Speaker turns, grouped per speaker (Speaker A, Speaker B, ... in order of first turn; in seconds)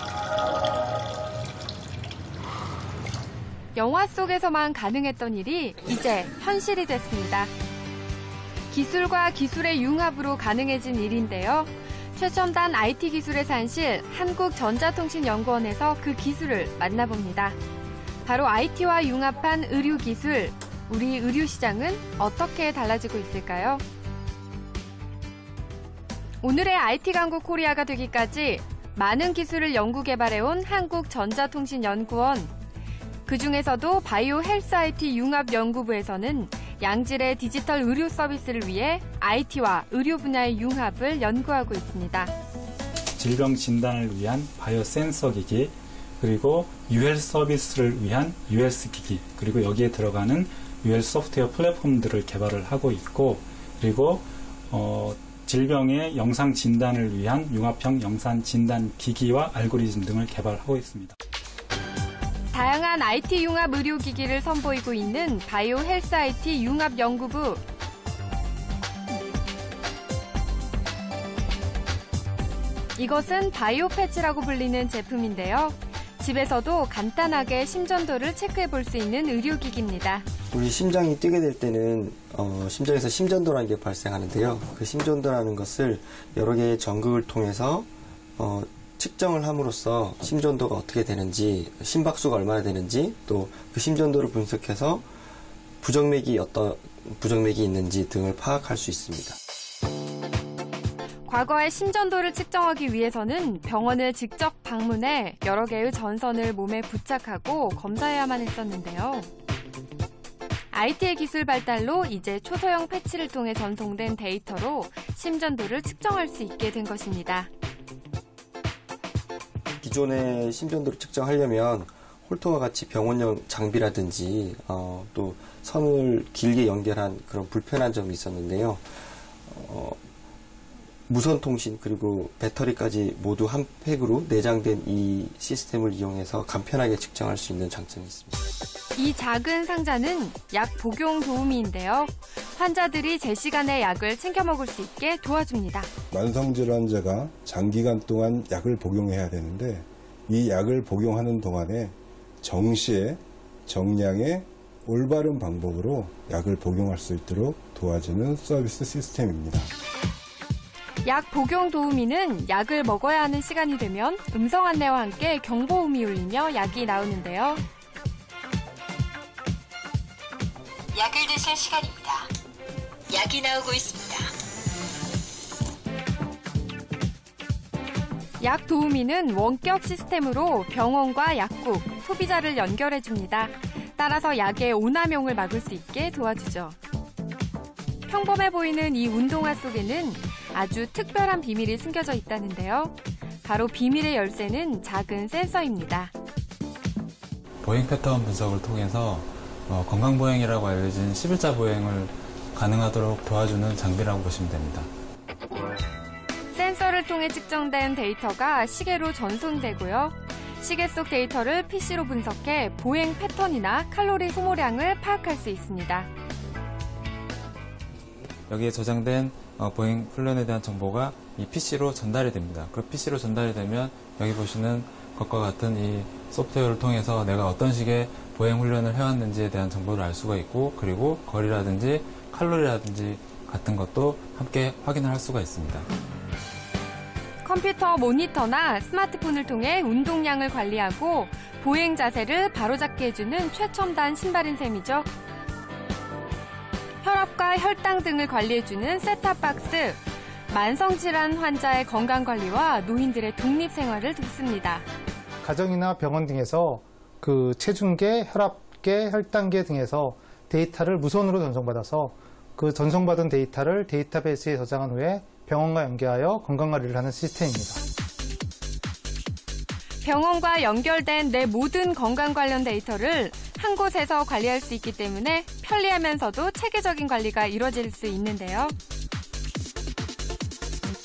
Speaker A: 3.7-7.5, 8.7-17.6, 18.2-23.8, 26.4-32.5, 33.2-42.3, 62.5-67.6, 73.0-80.2, 101.2-109.3, 110.7-117.5, 138.9-145.9, 161.0-167.6, 178.4-186.8, 188.1-196.1, 206.5-216.1, 237.4-245.1, 247.0-254.8, 270.0-278.7
Speaker B: 43.2-61.1
Speaker C: 80.5-95.1, 95.8-99.4, 119.8-128.9, 129.5-130.0, 131.1-138.4
Speaker D: 146.1-159.7
Speaker E: 170.9-172.3, 173.1-174.3
Speaker F: 197.6-204.9, 218.5-235.9
Speaker G: 255.4-267.8